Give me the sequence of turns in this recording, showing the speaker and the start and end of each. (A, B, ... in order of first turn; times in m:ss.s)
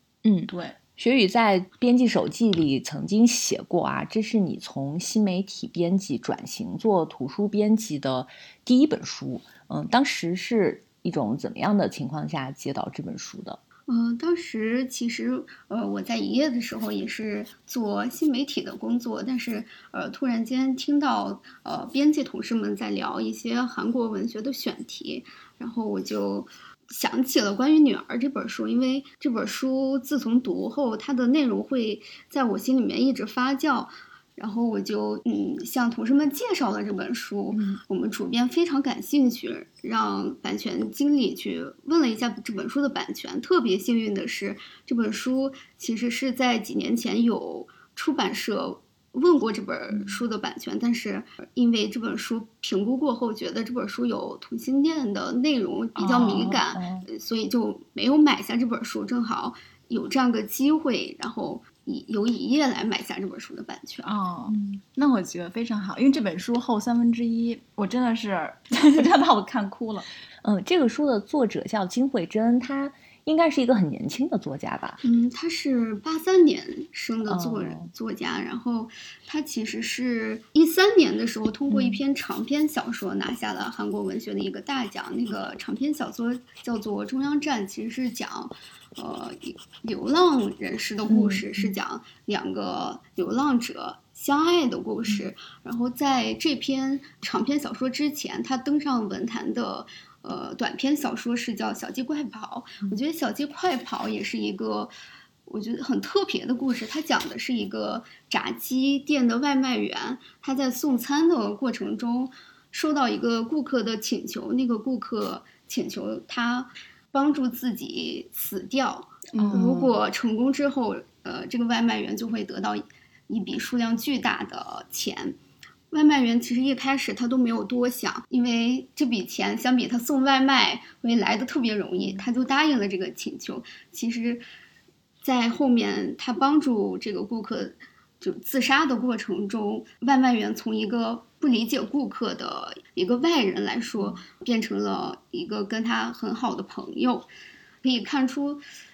0:00.2-0:13.6 A
0:00.5-0:00.8 B
0:13.9-1:04.1 C
0:37.5-0:37.8 B
0:56.0-0:57.0 B
1:04.0-1:10.1 B
1:10.4-1:15.0 A
1:15.0-1:44.9 C
1:17.3-1:17.9 A
1:21.7-1:22.0 A
1:31.1-1:31.7 A
1:45.4-2:05.4 C
1:59.3-2:00.0 B
2:05.9-2:14.4 C
2:15.2-2:27.3 C
2:27.8-2:28.6 C